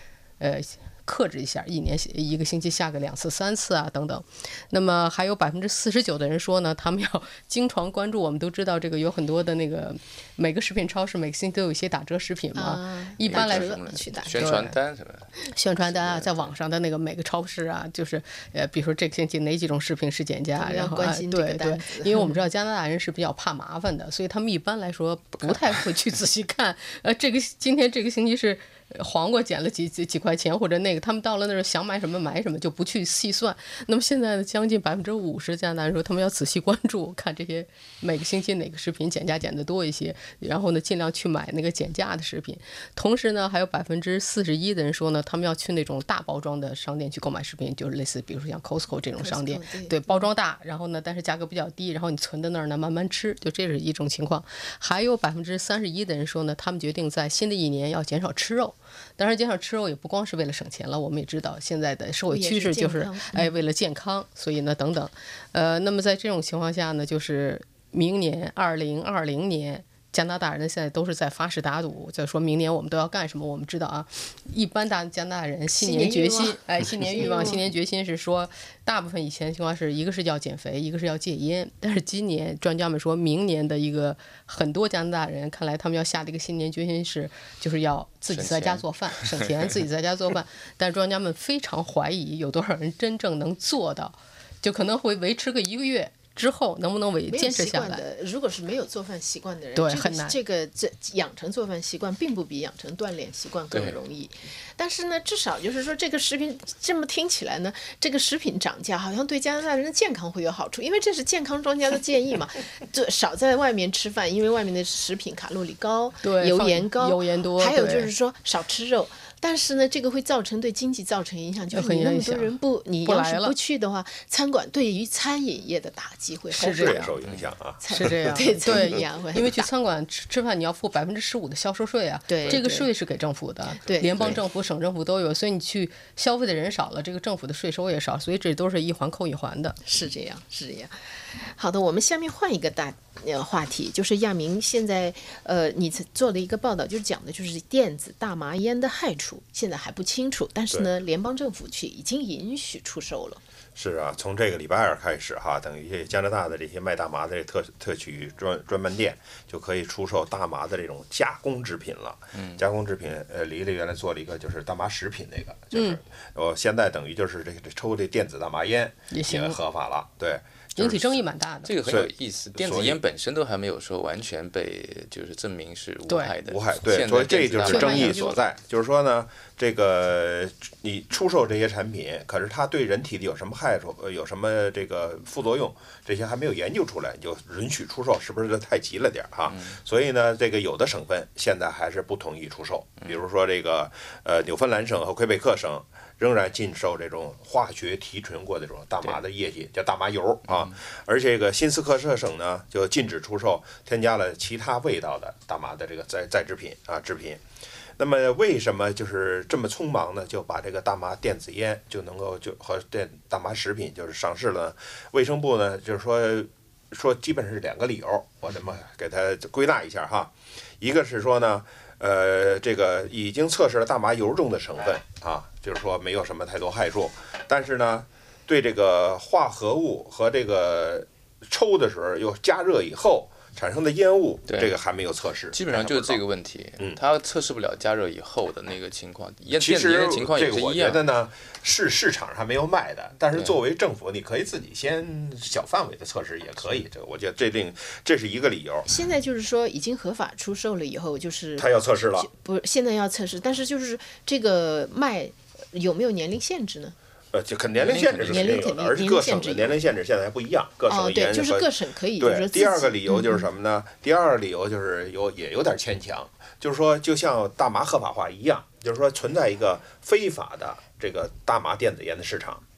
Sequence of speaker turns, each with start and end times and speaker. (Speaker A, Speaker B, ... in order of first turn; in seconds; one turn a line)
Speaker A: 0.4-14.8
Speaker B: 12.5-14.5
Speaker C: 13.2-16.5
Speaker A: 15.5-98.0
Speaker B: 20.5-22.3
Speaker B: 49.1-50.3
Speaker B: 62.3-63.5
Speaker B: 75.7-77.6
Speaker C: 88.3-89.4
Speaker B: 97.3-127.1
Speaker A: 99.7-100.4
Speaker A: 116.2-118.1
Speaker A: 121.7-123.5
Speaker A: 126.5-127.1
Speaker D: 126.7-128.0
Speaker B: 127.8-129.7
Speaker A: 127.9-139.8
Speaker D: 128.7-129.0
Speaker B: 132.3-132.9
Speaker B: 133.8-134.3
Speaker D: 134.1-134.4
Speaker B: 139.8-153.4
Speaker D: 153.8-171.1
Speaker C: 162.3-162.6
Speaker A: 165.7-166.0
Speaker A: 169.1-169.6
Speaker A: 170.8-171.8
Speaker C: 171.6-178.4
Speaker D: 171.8-173.0
Speaker A: 176.1-176.3
Speaker D: 176.5-207.4
Speaker A: 177.7-178.3
Speaker C: 189.5-189.8
Speaker C: 200.5-200.7
Speaker D: 208.0-236.2
Speaker C: 234.5-234.7
Speaker C: 235.5-241.0
Speaker D: 239.6-248.9
Speaker B: 248.8-256.9
Speaker D: 251.6-252.3
Speaker D: 257.3-272.6
Speaker C: 257.8-258.7
Speaker B: 258.2-259.8
Speaker B: 260.9-263.5